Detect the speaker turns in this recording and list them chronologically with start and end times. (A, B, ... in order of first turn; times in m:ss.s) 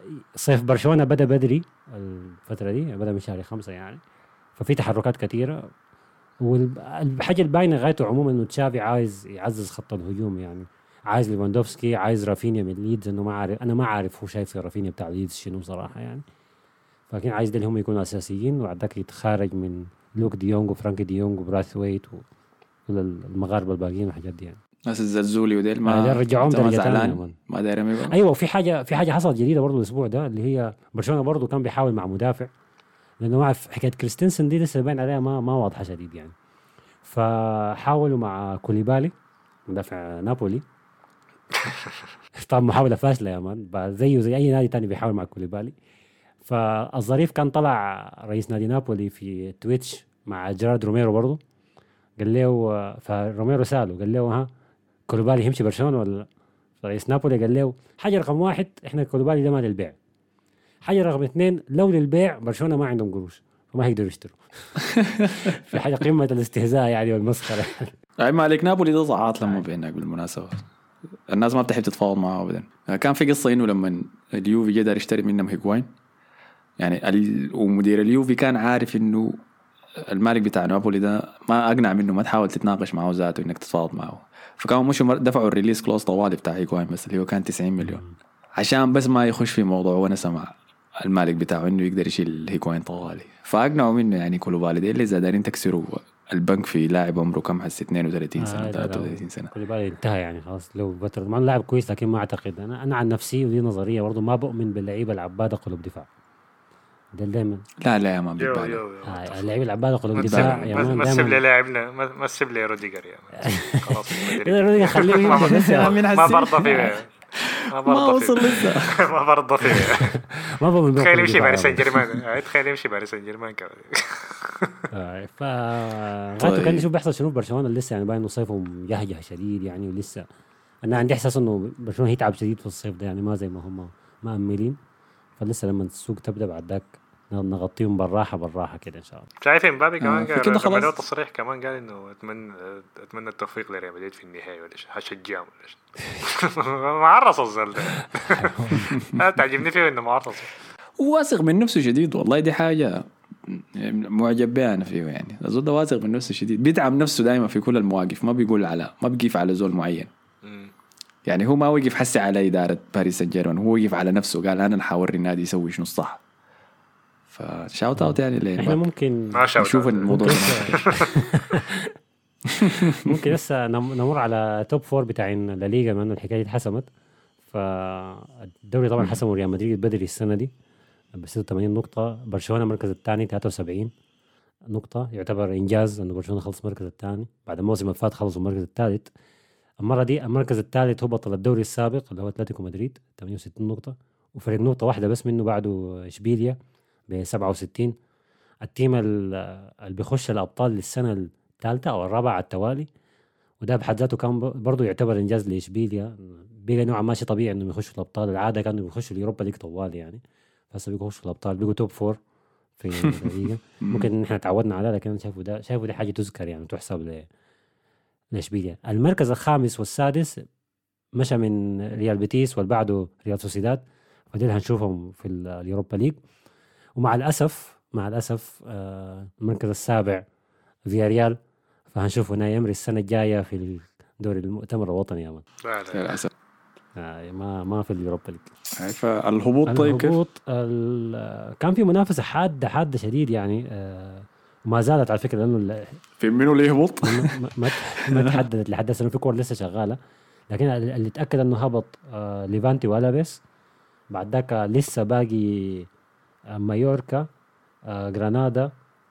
0:00.4-0:04.0 A
0:04.6-0:05.6 A
0:06.4-0:16.2 A
0:17.1-0:22.2 A
0:22.9-0:24.6 A
0:24.9-0:28.2 B
0:25.8-0:27.4 A
0:28.1-0:32.5 A
0:33.2-0:36.4 A
0:37.0-0:39.1 A
0:39.7-0:40.6 A
0:42.4-0:45.8 A
0:46.4-0:51.4 A
0:52.2-0:54.5 A
0:55.1-0:56.3 A
0:56.8-1:00.0 A
1:00.8-1:04.4 A
1:04.9-1:05.8 B
1:05.3-1:07.9 A
1:08.2-1:10.5 B
1:11.3-1:15.9 B
1:16.8-1:19.4 B
1:20.0-1:28.0 B
1:27.8-1:28.2 A
1:28.6-1:39.5 B
1:38.4-1:46.1 A
1:47.2-1:47.6 A
1:47.8-1:48.8 B
1:48.4-1:49.5 C
1:49.1-1:51.4 A
1:50.2-1:57.1 C
1:50.2-1:50.9 B
1:53.4-1:56.0 A
1:55.0-1:59.0 B
1:57.7-2:00.2 C
1:59.7-2:01.9 A
2:01.0-2:04.9 C
2:04.9-2:10.3 A
2:06.4-2:06.9 B
2:10.8-2:14.8 A
2:15.4-2:19.3 A
2:19.4-2:30.5 C
2:20.0-2:21.0 B
2:28.0-2:29.0 A
2:31.0-2:40.1 B
2:40.4-2:40.7 C
2:41.3-2:46.2 B
2:47.3-2:48.8 B
2:48.0-2:49.4 A
2:49.4-2:51.2 C
2:49.6-2:50.8 B
2:50.1-2:51.9 A
2:52.5-2:53.2 B
2:52.8-2:56.9 A
2:57.5-3:00.5 A
3:01.2-3:03.9 A
3:04.7-3:09.1 A
3:09.8-3:16.6 A
3:17.1-3:17.9 A
3:18.6-3:22.9 A
3:23.6-3:30.2 A
3:30.7-3:32.2 A
3:32.8-3:37.3 A
3:33.0-3:34.1 B
3:38.3-3:40.4 A
3:41.2-3:46.2 A
3:47.0-3:50.2 A
3:50.9-3:51.4 A
3:51.9-3:55.4 A
3:55.6-3:56.2 C
3:55.9-3:56.3 B
3:57.0-3:58.5 A
3:58.8-4:00.2 B
3:59.7-4:06.0 A
4:06.2-4:08.4 B
4:07.0-4:10.0 A
4:10.5-4:13.4 A
4:14.1-4:15.9 A
4:16.6-4:17.2 A
4:17.9-4:18.7 A